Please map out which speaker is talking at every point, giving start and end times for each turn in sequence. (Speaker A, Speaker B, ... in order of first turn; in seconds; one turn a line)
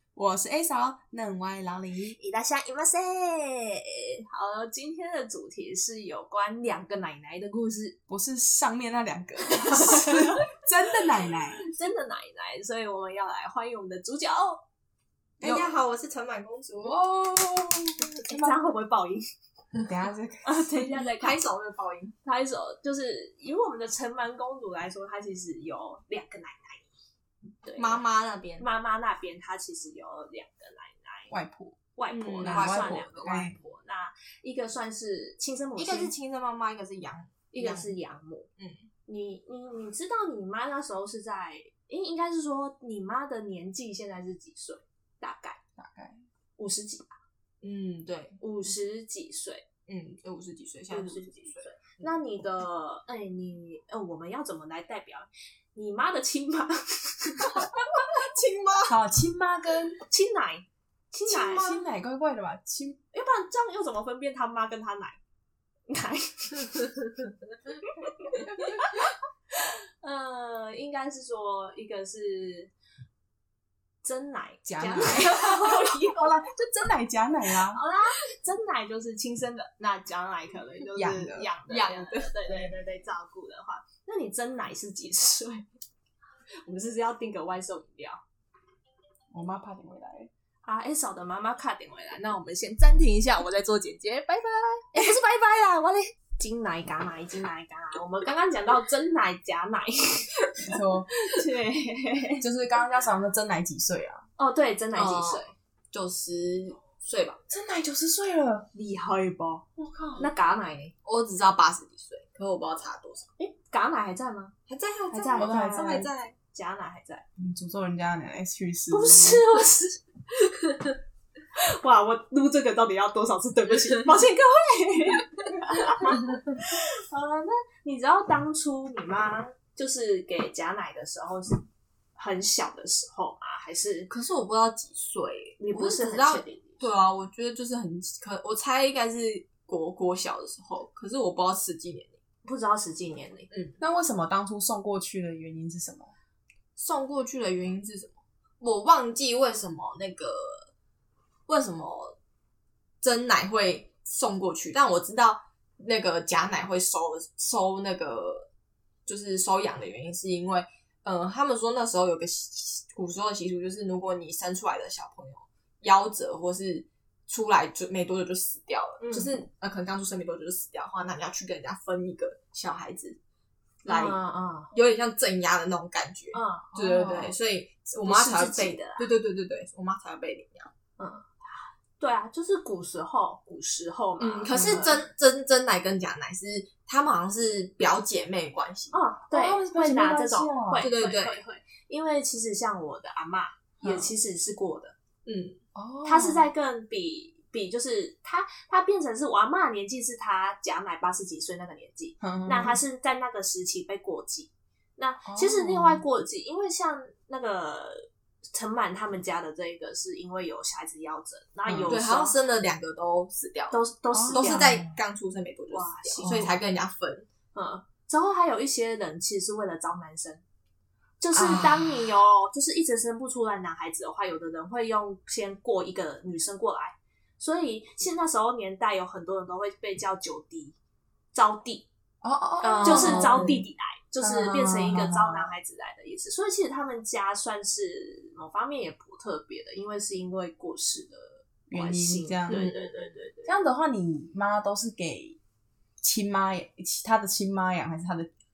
Speaker A: 0.1-2.2
Speaker B: 2.2-8.0
Speaker A: 8.1-11.6
Speaker B: 9.5-10.6
Speaker B: 11.6-14.6
Speaker C: 15.4-17.0
Speaker A: 15.4-15.7
Speaker A: 16.8-18.6
Speaker B: 18.2-19.2
Speaker A: 19.9-20.9
Speaker B: 20.4-21.4
Speaker C: 20.9-22.1
Speaker B: 22.2-26.9
Speaker B: 27.6-28.0
Speaker C: 27.8-28.7
Speaker B: 28.6-31.3
Speaker A: 31.3-31.8
Speaker B: 31.9-36.1
Speaker C: 32.1-33.6
Speaker A: 32.4-33.5
Speaker C: 35.8-38.0
Speaker B: 37.5-38.5
Speaker C: 38.6-38.8
Speaker B: 39.0-45.6
Speaker A: 45.8-46.2
Speaker B: 46.6-47.1
Speaker C: 47.6-48.4
Speaker B: 48.4-49.6
Speaker C: 49.9-52.2
Speaker B: 50.9-57.9
Speaker C: 58.0-58.9
Speaker A: 58.9-60.0
Speaker B: 60.1-61.8
Speaker C: 61.3-61.8
Speaker A: 61.3-63.0
Speaker B: 63.1-65.2
Speaker B: 65.9-67.1
Speaker B: 67.8-69.0
Speaker B: 69.6-72.7
Speaker B: 74.0-76.3
Speaker A: 74.6-77.8
Speaker B: 77.6-85.7
Speaker A: 81.0-81.5
Speaker C: 81.7-82.8
Speaker B: 86.6-88.2
Speaker A: 89.3-90.3
Speaker B: 90.6-100.6
Speaker A: 100.6-101.1
Speaker B: 101.2-102.4
Speaker A: 102.4-104.2
Speaker B: 104.4-105.5
Speaker C: 104.9-107.4
Speaker A: 107.5-108.7
Speaker B: 108.7-110.9
Speaker A: 109.8-110.3
Speaker C: 111.0-113.3
Speaker B: 113.4-114.5
Speaker C: 114.7-116.3
Speaker B: 115.1-117.2
Speaker A: 115.3-116.1
Speaker A: 117.4-119.4
Speaker B: 118.9-120.9
Speaker B: 121.5-131.6
Speaker B: 132.2-134.1
Speaker C: 134.1-142.2
Speaker B: 135.6-136.9
Speaker B: 142.4-143.5
Speaker C: 143.5-143.8
Speaker A: 143.8-146.1
Speaker C: 146.8-150.7
Speaker C: 151.5-152.2
Speaker C: 153.0-158.5
Speaker C: 159.1-173.2
Speaker B: 169.0-169.3
Speaker C: 173.8-174.2
Speaker B: 173.9-174.7
Speaker C: 174.7-180.7
Speaker B: 176.3-176.7
Speaker A: 176.7-177.3
Speaker B: 178.0-179.1
Speaker B: 181.0-181.3
Speaker B: 182.0-185.0
Speaker C: 184.2-189.0
Speaker A: 184.5-184.9
Speaker B: 188.9-194.9
Speaker A: 189.3-190.9
Speaker C: 190.8-191.4
Speaker A: 193.8-194.1
Speaker C: 195.2-195.6
Speaker A: 195.7-196.4
Speaker B: 196.0-212.4
Speaker A: 202.2-202.8
Speaker A: 205.2-206.0
Speaker A: 211.6-211.9
Speaker C: 211.9-217.3
Speaker B: 213.7-214.8
Speaker A: 214.1-215.0
Speaker B: 215.7-216.4
Speaker A: 216.2-216.6
Speaker B: 217.5-220.4
Speaker B: 221.2-230.7
Speaker A: 221.3-222.1
Speaker B: 231.3-231.9
Speaker A: 232.2-233.6
Speaker C: 232.6-233.6
Speaker B: 232.8-243.6
Speaker A: 234.2-235.5
Speaker A: 241.7-242.7
Speaker C: 242.5-243.1
Speaker A: 243.4-245.4
Speaker A: 246.0-248.3